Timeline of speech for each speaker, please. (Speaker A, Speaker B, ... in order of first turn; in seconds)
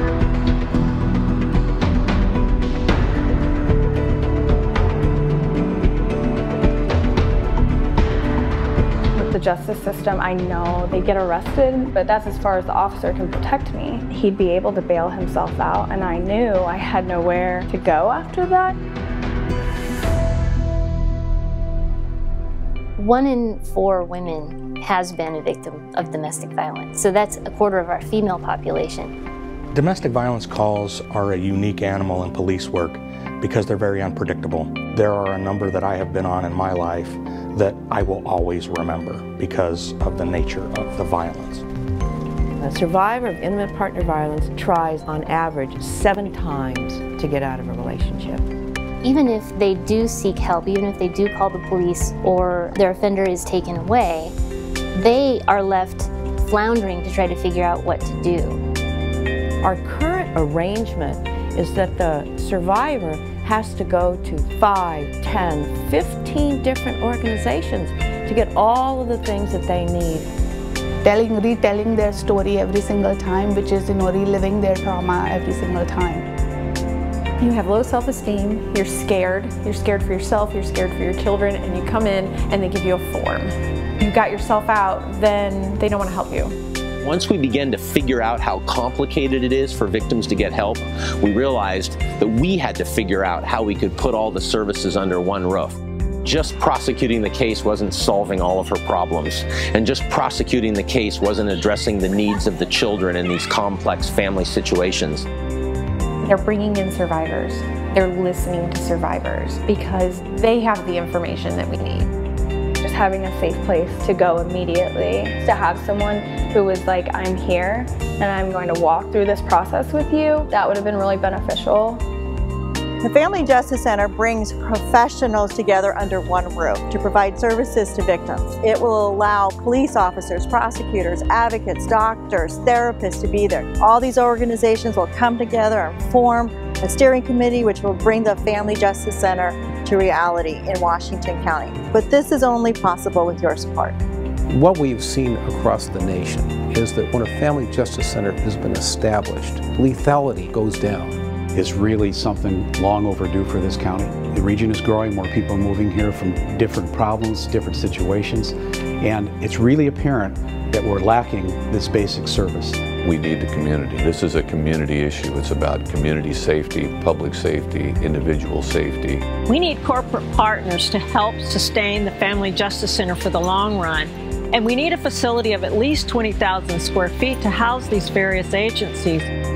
Speaker A: 9.1-18.8, 112.8-122.0
Speaker B: 23.0-29.1, 49.0-54.3, 54.9-58.6
Speaker C: 29.7-41.7
Speaker D: 42.6-48.5, 59.6-70.3
Speaker E: 71.0-76.3
Speaker F: 77.4-86.6, 106.2-112.1
Speaker G: 87.0-105.3
Speaker H: 123.0-144.0
Speaker I: 144.5-151.2
Speaker J: 151.5-162.9
Speaker K: 163.0-169.3
Speaker L: 169.5-179.3